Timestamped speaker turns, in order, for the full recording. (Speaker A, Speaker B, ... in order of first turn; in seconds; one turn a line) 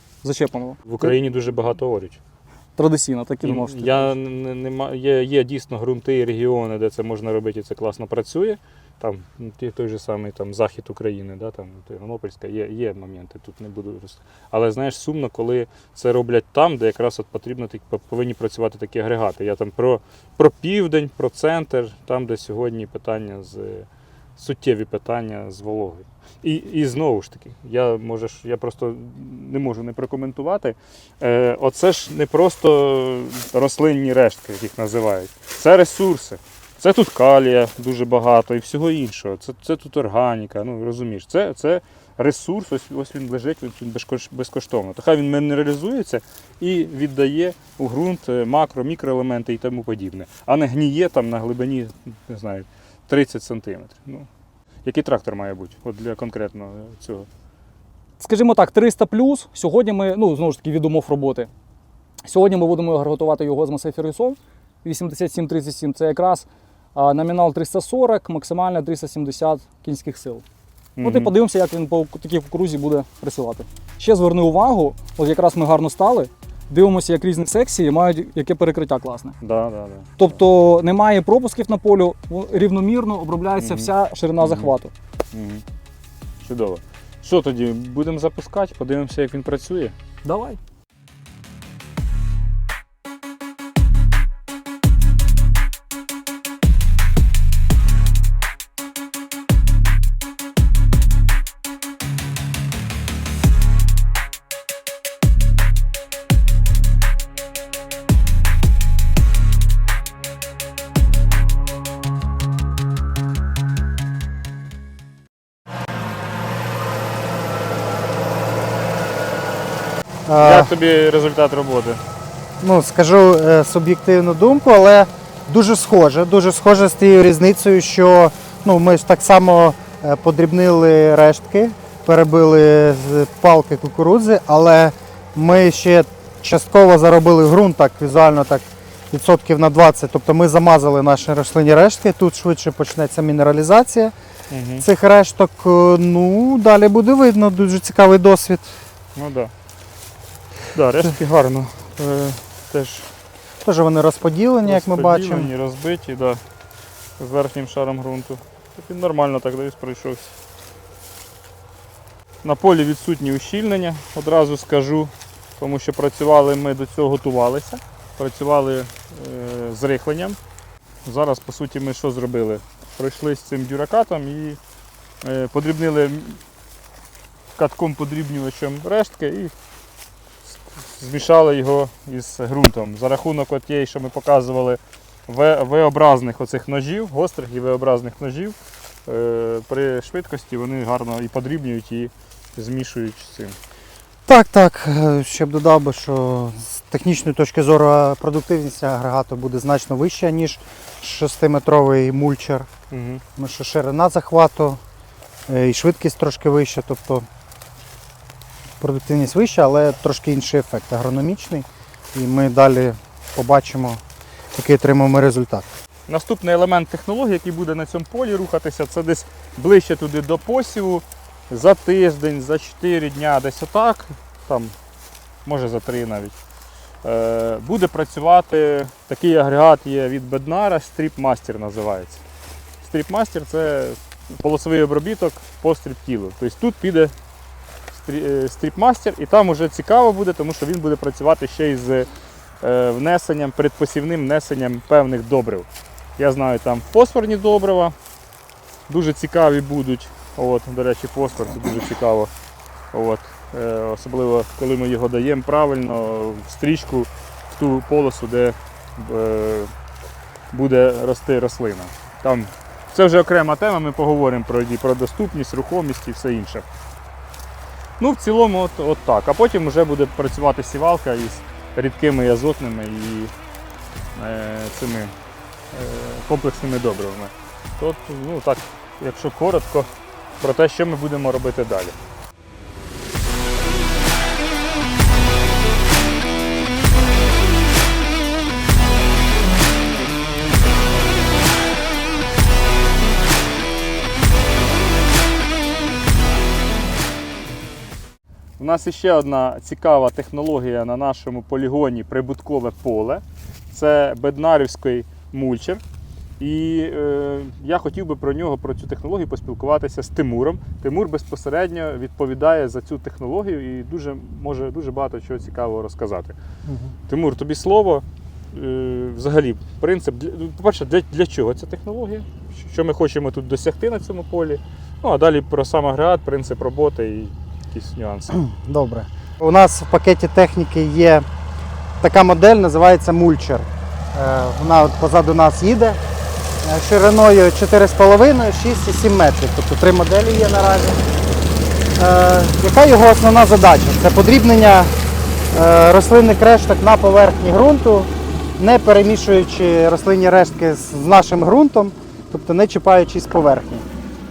Speaker A: 0.2-1.1
Speaker B: 0.9-2.2
Speaker A: 2.8-4.1
Speaker B: 3.4-54.3
Speaker B: 54.9-57.3
Speaker A: 58.2-61.5
Speaker A: 62.2-70.4
Speaker B: 71.0-71.3
Speaker A: 71.0-79.3
Speaker B: 79.4-80.3
Speaker A: 80.2-84.9
Speaker B: 83.6-84.7
Speaker B: 85.3-85.6
Speaker B: 86.4-89.9
Speaker A: 90.2-90.6
Speaker C: 120.3-120.7
Speaker B: 120.4-122.0
Speaker C: 122.6-144.1
Speaker B: 144.5-144.9
Speaker C: 144.8-148.8
Speaker B: 149.2-149.5
Speaker B: 150.7-153.1
Speaker C: 153.6-155.5
Speaker B: 154.7-156.4
Speaker B: 157.2-160.3
Speaker B: 162.4-170.4
Speaker B: 171.1-174.6
Speaker B: 175.2-176.4
Speaker B: 177.6-179.5
Speaker B: 180.5-193.6
Speaker C: 194.3-202.7
Speaker B: 202.9-203.2
Speaker C: 203.4-204.8
Speaker C: 205.5-207.2
Speaker C: 208.8-214.0
Speaker C: 214.5-215.7
Speaker B: 216.1-224.7
Speaker B: 225.4-226.4
Speaker B: 227.0-232.2
Speaker B: 232.8-237.1
Speaker B: 237.9-242.1
Speaker B: 242.6-247.9
Speaker B: 248.9-252.3
Speaker B: 252.9-259.7
Speaker B: 260.5-266.6
Speaker B: 268.0-273.3
Speaker B: 274.1-275.1
Speaker B: 275.7-282.0
Speaker B: 298.6-305.8
Speaker B: 306.4-316.4
Speaker C: 316.7-316.9
Speaker B: 317.1-328.4
Speaker C: 328.3-331.2
Speaker C: 332.0-336.0
Speaker C: 336.6-341.0
Speaker C: 342.0-344.9
Speaker C: 345.5-353.9